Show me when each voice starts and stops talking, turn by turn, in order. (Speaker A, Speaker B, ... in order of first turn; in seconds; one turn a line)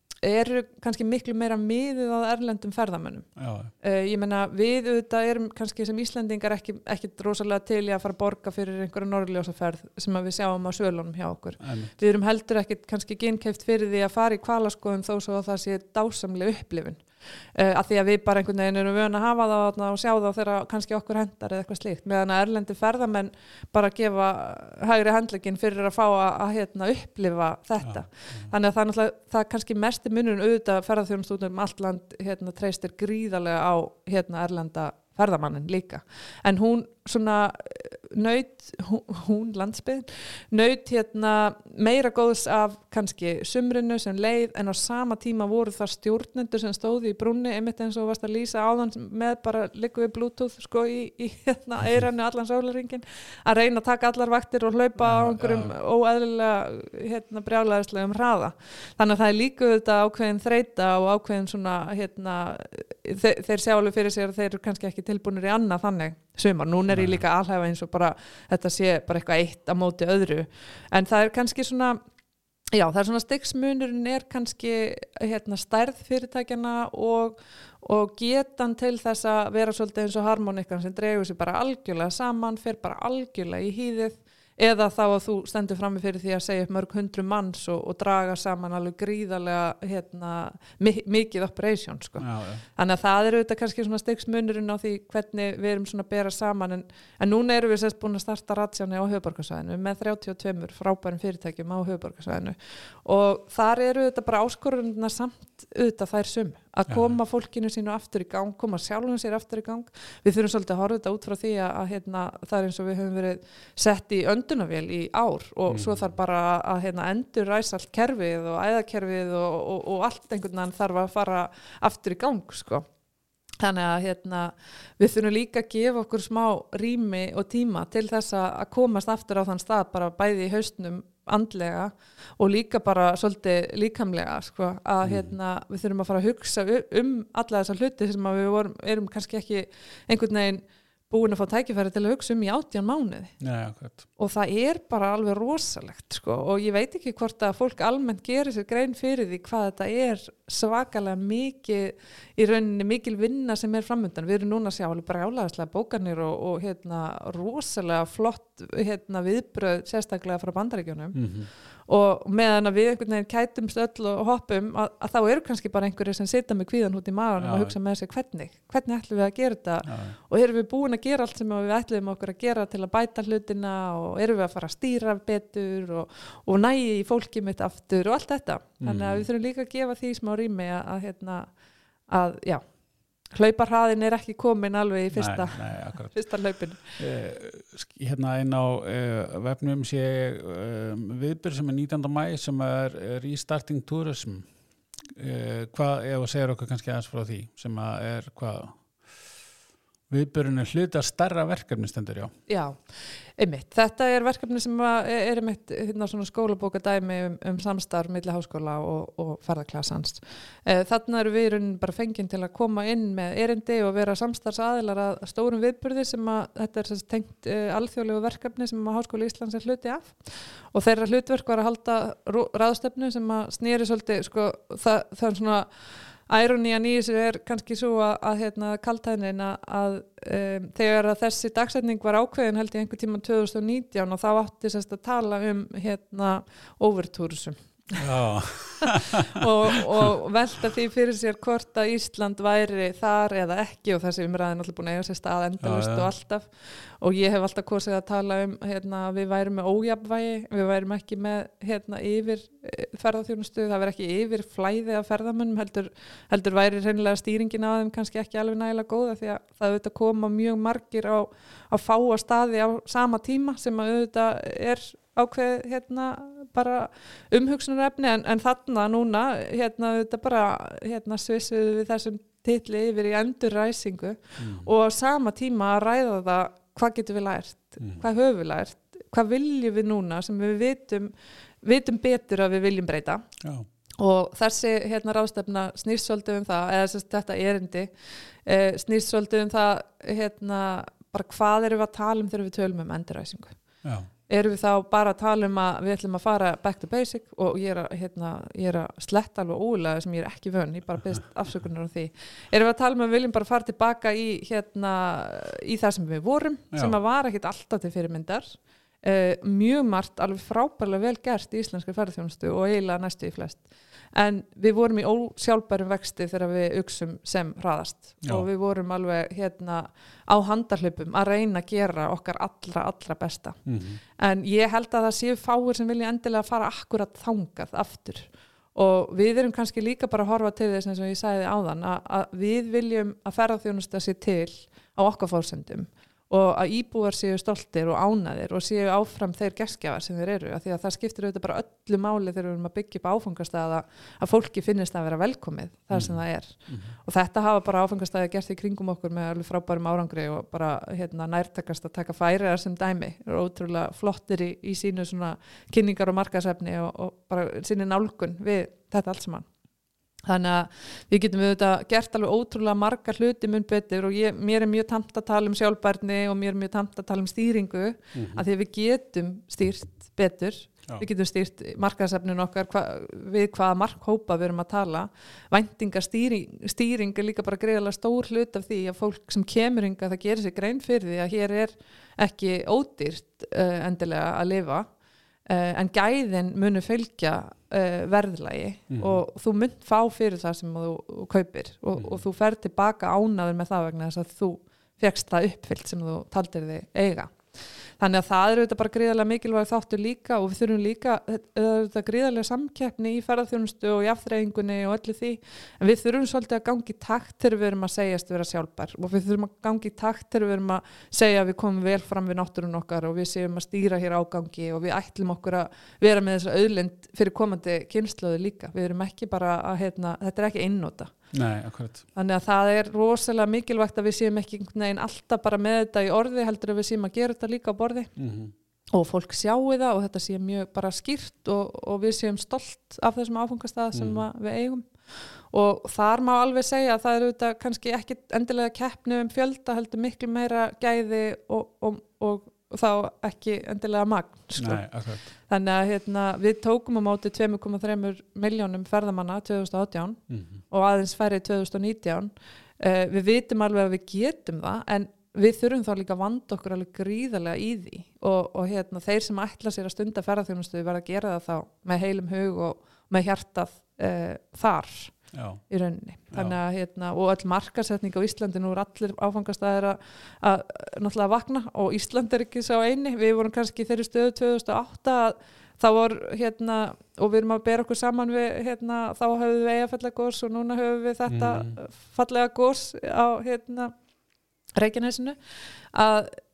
Speaker A: 0.2-3.3
Speaker B: 3.4-3.7
Speaker A: 3.8-17.0
Speaker B: 11.6-11.9
Speaker A: 17.5-72.0
Speaker B: 27.8-28.5
Speaker B: 55.0-55.7
Speaker B: 66.9-67.2
Speaker A: 72.7-122.9
Speaker B: 92.2-92.6
Speaker B: 106.9-107.1
Speaker B: 115.7-116.1
Speaker A: 123.6-143.3
Speaker B: 135.0-135.3
Speaker B: 143.4-144.1
Speaker A: 144.2-161.2
Speaker B: 161.1-161.5
Speaker A: 161.9-181.5
Speaker B: 167.4-167.7
Speaker B: 169.9-170.2
Speaker B: 178.8-179.2
Speaker A: 182.1-182.6
Speaker A: 183.3-187.0
Speaker B: 185.1-186.2
Speaker B: 187.0-194.5
Speaker B: 195.1-198.8
Speaker B: 200.1-202.3
Speaker A: 202.5-202.8
Speaker A: 203.4-225.7
Speaker A: 226.3-238.1
Speaker B: 238.0-240.1
Speaker A: 238.8-283.3
Speaker B: 245.6-246.1
Speaker B: 274.4-274.7
Speaker B: 283.4-283.7
Speaker A: 284.0-287.9
Speaker A: 288.4-293.6
Speaker B: 293.8-294.1
Speaker A: 294.3-323.6
Speaker B: 323.6-324.0
Speaker A: 324.2-359.5
Speaker B: 345.9-346.9
Speaker A: 360.3-384.9
Speaker B: 368.1-368.4
Speaker A: 385.5-397.4
Speaker B: 388.9-389.2
Speaker B: 392.0-392.2
Speaker A: 398.0-421.1
Speaker B: 421.3-422.1
Speaker A: 422.1-428.1
Speaker B: 428.2-428.5
Speaker A: 428.9-465.2
Speaker B: 433.9-434.2
Speaker B: 444.6-445.3
Speaker B: 450.3-450.6
Speaker B: 465.3-465.6
Speaker A: 465.7-483.9
Speaker B: 481.3-481.7
Speaker A: 484.8-485.4
Speaker A: 485.9-486.4